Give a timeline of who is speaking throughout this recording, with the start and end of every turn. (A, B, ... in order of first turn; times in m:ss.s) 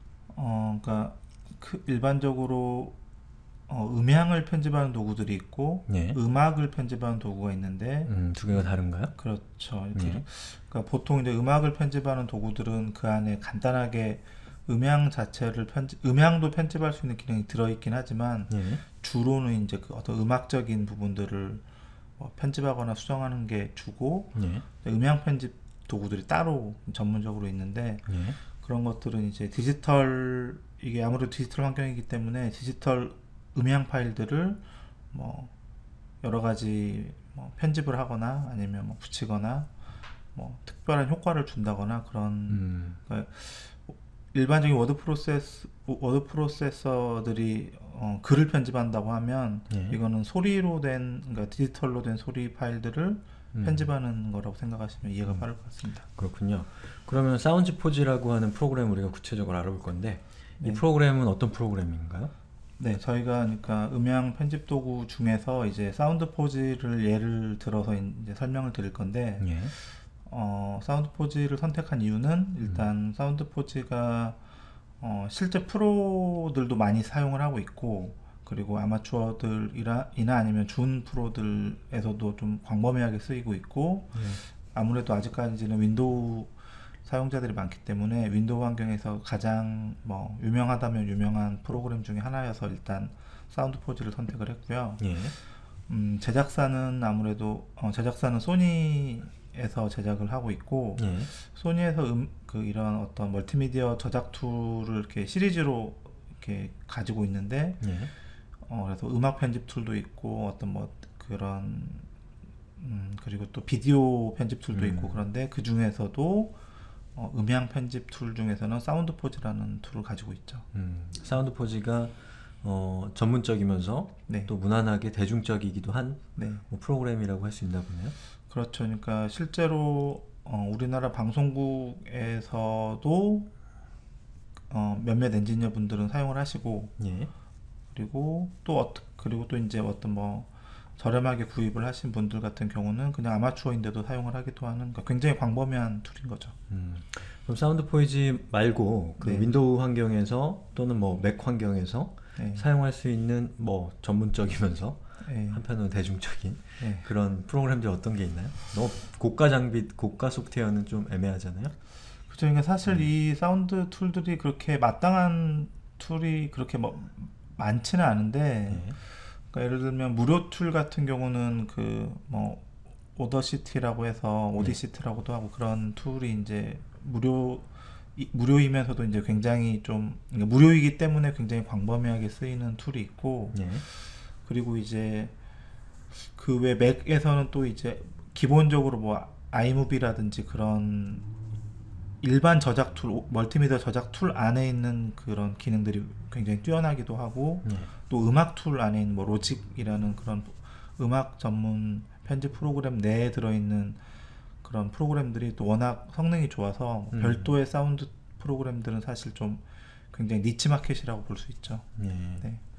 0:00.3-0:03.0 A
0:03.7-0:21.6 A
0:05.9-0:06.2 B
0:08.0-0:09.1 B
0:09.9-0:10.2 B
0:18.5-0:18.8 B
0:22.2-0:35.5 A
0:24.3-0:24.6 B
0:28.1-0:28.4 B
0:36.2-0:39.7 A
0:40.3-0:56.0 A
0:42.5-0:43.0 B
0:49.7-0:50.0 B
0:53.5-0:53.9 B
0:56.0-1:02.3 B
1:02.8-1:14.4 A
1:09.4-1:09.7 B
1:15.0-1:35.1 A
1:24.1-1:24.4 B
1:35.0-1:35.3 B
1:35.9-1:47.8 A
1:41.0-1:41.3 B
1:47.8-1:48.1 B
1:48.6-1:52.1 A
1:52.8-1:56.6 A
1:54.7-1:55.2 B
1:57.1-2:00.6 A
2:00.7-2:08.1 B
2:06.4-2:06.6 A
2:08.5-2:13.5 A
2:14.7-2:17.0 A
2:17.0-2:17.3 B
2:17.9-2:26.5 A
2:26.7-2:41.7 B
2:29.2-2:29.5 A
2:32.4-2:32.6 A
2:35.2-2:35.6 A
2:36.8-2:37.1 A
2:42.3-3:03.9 A
2:48.7-2:49.0 B
3:03.5-3:03.8 B
3:04.4-3:05.3 A
3:06.3-3:11.3 A
3:12.2-3:24.0 A
3:17.6-3:17.9 B
3:24.6-3:32.6 A
3:27.1-3:27.5 B
3:32.0-3:32.4 B